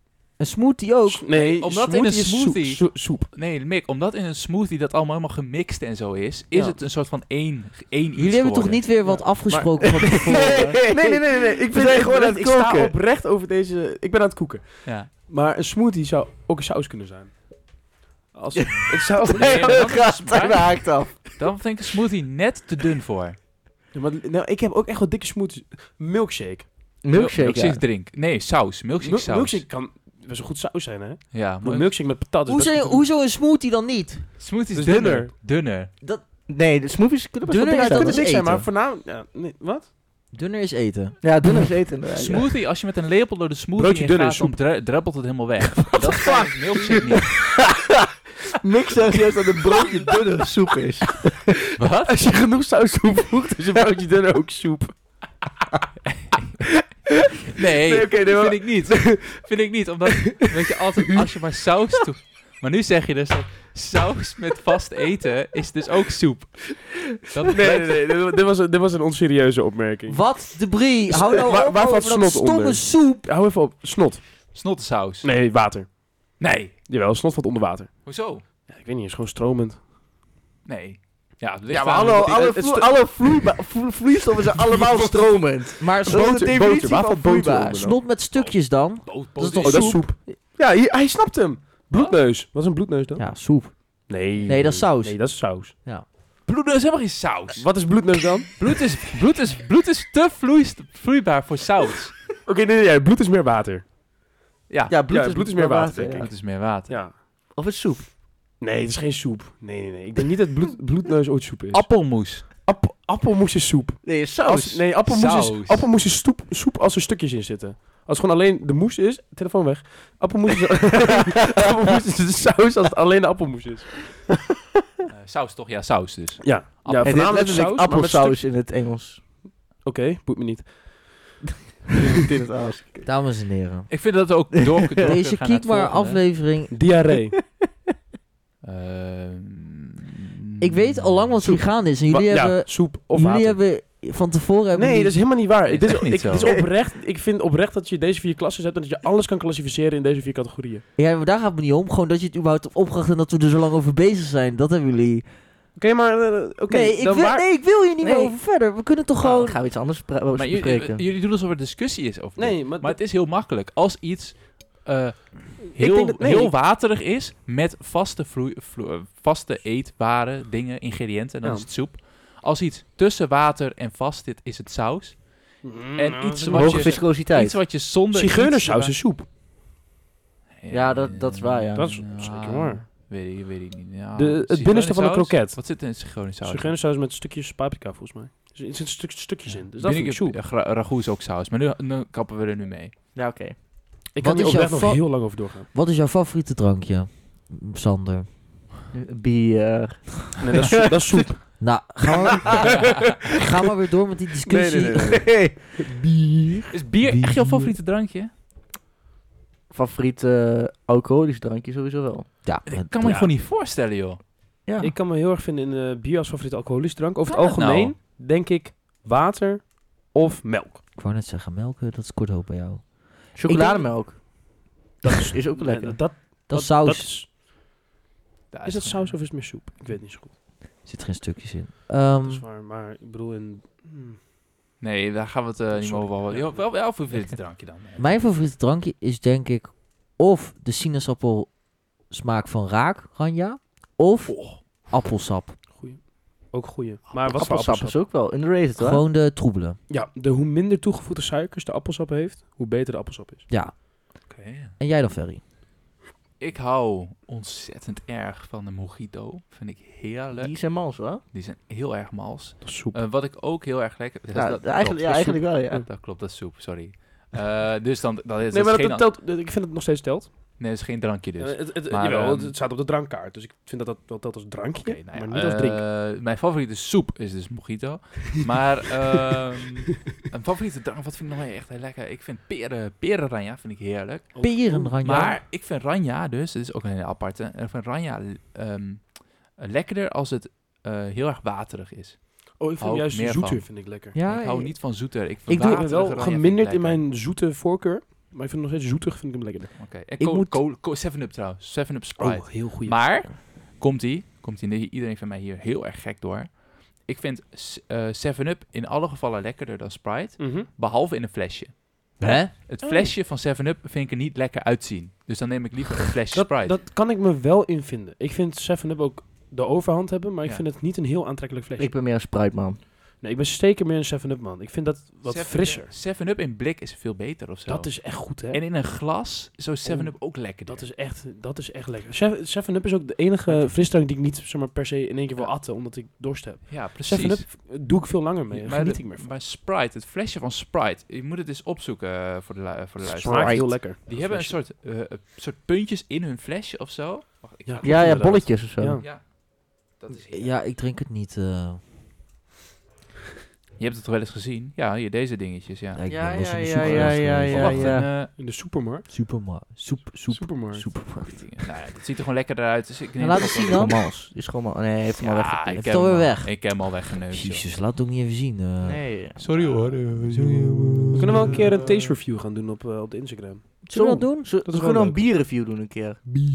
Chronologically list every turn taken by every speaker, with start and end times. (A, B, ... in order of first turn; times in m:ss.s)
0:00.4-0:01.2 A
0:01.1-0:03.3 B
0:01.3-0:08.9 C
0:08.2-0:10.8 A
0:09.0-0:17.6 B
0:10.0-0:12.9 D
0:14.8-0:15.1 C
0:18.3-0:19.9 B
0:18.6-0:21.4 D
0:19.2-0:23.4 C
0:23.9-0:26.7 B
0:27.0-0:27.8 D
0:27.1-0:29.6 C
0:29.0-0:33.1 B
0:31.3-0:31.9 C
0:32.4-0:34.3 A
0:34.4-0:35.9 C
0:34.7-0:35.3 B
0:36.5-0:38.2 D
0:37.4-0:38.7 A
0:37.8-0:39.9 B
0:40.3-0:41.2 A
0:41.2-0:42.5 D
0:42.1-0:47.6 C
0:43.7-0:44.6 B
0:45.9-0:46.9 B
0:47.3-0:47.9 D
0:48.6-0:51.5 D
0:51.8-0:52.3 C
0:52.0-0:55.0 B
0:56.1-0:56.6 C
0:57.5-0:59.3 B
0:57.5-1:08.1 C
1:00.2-1:00.5 B
1:07.5-1:10.4 B
1:10.1-1:13.2 A
1:11.1-1:14.5 B
1:14.5-1:15.3 C
1:15.2-1:16.0 B
1:16.4-1:16.7 C
1:16.9-1:19.8 B
1:18.0-1:18.4 C
1:20.6-1:22.4 C
1:21.7-1:27.9 D
1:21.7-1:22.9 B
1:24.7-1:28.0 B
1:25.8-1:26.5 A
1:27.8-1:30.1 A
1:28.3-1:30.0 C
1:29.6-1:35.7 B
1:33.2-1:36.0 A
1:36.4-1:37.9 C
1:37.6-1:38.5 B
1:38.6-1:42.2 C
1:42.4-1:43.9 B
1:44.7-1:45.0 C
1:44.9-1:46.3 D
1:45.1-1:47.1 B
1:46.1-1:47.2 C
1:47.5-1:48.1 D
1:48.6-2:04.2 B
1:51.7-1:52.5 C
1:54.0-1:54.8 D
1:55.0-1:55.8 C
2:05.1-2:07.4 C
2:06.4-2:08.4 B
2:07.0-2:09.2 D
2:09.8-2:11.4 B
2:12.0-2:13.0 D
2:13.0-2:14.0 A
2:13.9-2:16.3 C
2:14.7-2:15.1 D
2:15.0-2:16.8 A
2:16.7-2:17.4 B
2:18.6-2:21.3 C
2:20.6-2:25.2 A
2:21.4-2:23.6 B
2:24.7-2:30.8 B
2:25.6-2:26.5 C
2:26.3-2:26.6 D
2:31.0-2:35.3 A
2:35.8-2:37.5 B
2:36.7-2:39.6 A
2:38.0-2:38.4 D
2:39.2-2:41.0 D
2:40.3-2:59.0 C
2:42.4-2:43.0 B
2:45.7-2:46.5 B
2:51.4-2:51.7 B
2:55.6-2:57.0 B
2:56.5-2:57.6 D
2:58.1-2:59.2 B
3:00.6-3:06.8 C
3:00.7-3:02.0 D
3:01.7-3:02.8 B
3:04.2-3:05.8 B
3:06.4-3:10.4 B
3:09.5-3:12.9 C
3:13.1-3:13.6 D
3:14.1-3:15.7 B
3:14.2-3:18.3 A
3:18.9-3:21.3 D
3:20.4-3:21.6 B
3:21.6-3:25.3 A
3:24.5-3:25.6 B
3:24.9-3:26.7 D
3:26.7-3:28.3 C
3:27.0-3:27.7 A
3:29.7-3:32.3 D
3:32.4-3:33.3 A
3:32.6-3:34.2 C
3:33.0-3:33.3 B
3:34.6-3:34.9 D
3:34.8-3:40.8 B
3:37.3-3:37.9 C
3:41.0-3:43.8 A
3:43.4-3:44.6 D
3:45.0-3:47.3 B
3:45.1-3:46.0 D
3:46.5-3:47.1 A
3:48.5-3:49.2 C
3:48.6-3:50.3 B
3:50.8-3:52.4 A
3:52.2-3:54.2 B
3:54.8-3:58.2 C
3:55.7-3:56.8 B
3:58.0-4:05.6 A
4:04.3-4:04.6 C
4:05.7-4:08.0 B
4:07.2-4:09.0 D
4:08.8-4:09.8 A
4:09.9-4:13.5 B
4:13.5-4:13.8 A
4:14.3-4:14.7 C
4:14.8-4:15.4 A
4:16.4-4:29.1 C
4:20.4-4:21.2 D
4:22.6-4:23.0 B
4:24.3-4:25.8 D
4:28.5-4:30.6 B
4:30.6-4:32.5 C
4:31.4-4:35.8 B
4:34.8-4:57.0 C
4:44.3-4:45.1 B
4:44.4-4:45.4 A
4:52.6-4:54.1 B
4:54.1-4:55.8 A
4:55.6-4:59.7 B
4:59.8-5:16.8 C
5:00.2-5:00.6 A
5:02.2-5:03.3 B
5:10.4-5:10.7 B
5:12.2-5:12.5 A
5:12.8-5:13.1 B
5:16.3-5:21.9 B
5:21.8-5:22.8 D
5:23.2-5:25.9 B
5:25.2-5:30.9 C
5:27.6-5:28.6 B
5:29.8-5:39.3 B
5:33.4-5:33.8 C
5:36.7-5:37.7 C
5:38.5-5:50.6 C
5:43.0-5:44.2 D
5:43.2-5:44.5 B
5:47.6-5:49.1 B
5:47.8-5:49.0 D
5:50.1-5:51.8 A
5:53.8-5:56.0 C
5:55.9-5:58.3 A
5:56.1-5:58.1 D
5:56.8-5:58.3 C
5:58.3-5:59.1 B
5:59.1-6:01.5 A
6:00.3-6:00.9 B
6:01.3-6:03.9 C
6:03.2-6:04.0 A
6:03.3-6:06.1 D
6:05.2-6:07.7 C
6:05.8-6:09.2 A
6:08.8-6:09.7 D
6:09.4-6:11.6 C
6:10.1-6:11.7 A
6:11.1-6:13.8 B
6:13.8-6:16.2 D
6:13.9-6:14.6 A
6:14.6-6:15.2 B